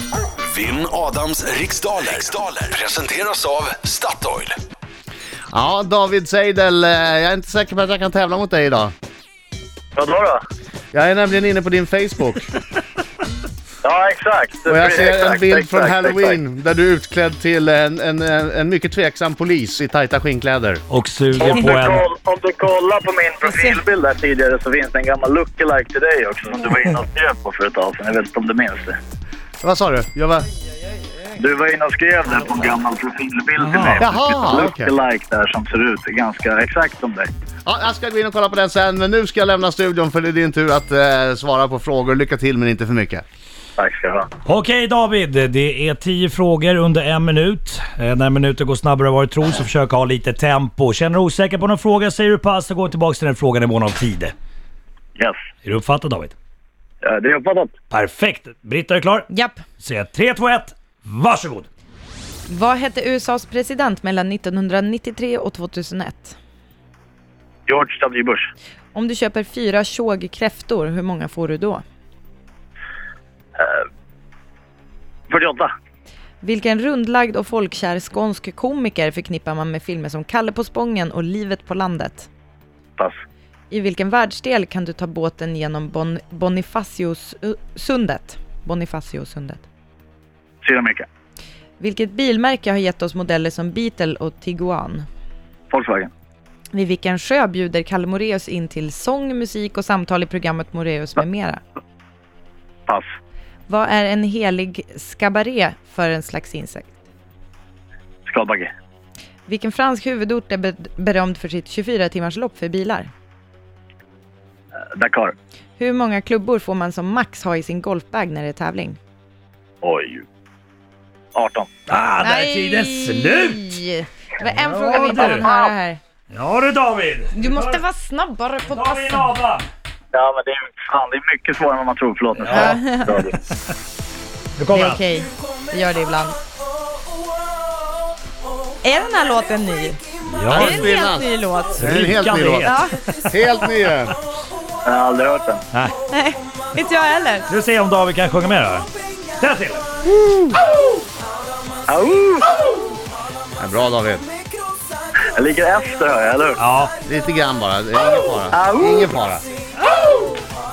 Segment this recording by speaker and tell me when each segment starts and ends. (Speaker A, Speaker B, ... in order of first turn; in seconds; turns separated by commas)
Speaker A: 0.4-4.5, Speaker B: 5.5-8.9, Speaker C: 10.0-10.4, Speaker B: 10.9-12.5, Speaker C: 13.8-16.4, Speaker B: 14.7-20.8, Speaker D: 20.9-22.1, Speaker C: 21.4-29.0, Speaker E: 23.5-23.8, Speaker B: 29.6-30.5, Speaker C: 31.4-37.3, Speaker D: 33.6-34.5, Speaker B: 34.0-34.9, Speaker B: 37.6-43.2, Speaker C: 43.8-44.3, Speaker D: 44.5-54.3, Speaker D: 55.6-56.4, Speaker C: 57.0-57.7, Speaker D: 57.9-61.7, Speaker E: 59.3-59.6, Speaker E: 62.5-66.4, Speaker C: 67.7-68.5, Speaker E: 68.9-71.8, Speaker C: 73.6-73.8, Speaker C: 75.3-75.7, Speaker E: 76.4-82.3, Speaker E: 83.7-89.7, Speaker C: 90.6-91.1, Speaker E: 91.8-95.1, Speaker C: 95.7-96.1, Speaker E: 96.7-101.6, Speaker E: 103.7-106.9, Speaker C: 108.3-108.7, Speaker E: 109.5-113.1, Speaker C: 114.9-115.3, Speaker E: 115.8-119.0, Speaker C: 119.8-120.3, Speaker C: 121.3-121.7, Speaker D: 121.9-123.8, Speaker E: 122.2-126.0, Speaker D: 124.5-125.5, Speaker C: 124.9-125.7, Speaker D: 126.3-127.8, Speaker E: 127.3-129.3, Speaker D: 128.6-129.7, Speaker C: 130.1-133.3, Speaker D: 132.3-132.8, Speaker E: 132.5-133.1, Speaker D: 134.6-135.0, Speaker E: 134.7-136.4, Speaker E: 138.8-140.0, Speaker D: 140.3-140.9, Speaker B: 140.5-142.7, Speaker E: 140.5-141.8, Speaker D: 141.8-143.3, Speaker E: 142.6-142.9, Speaker B: 143.3-144.2, Speaker C: 144.8-145.6, Speaker D: 145.7-146.0, Speaker E: 146.1-147.5, Speaker D: 147.5-149.9, Speaker B: 150.1-150.6, Speaker C: 151.9-152.7, Speaker B: 153.6-154.3, Speaker C: 155.3-156.6, Speaker D: 156.6-156.9, Speaker B: 157.1-159.5, Speaker C: 158.5-159.1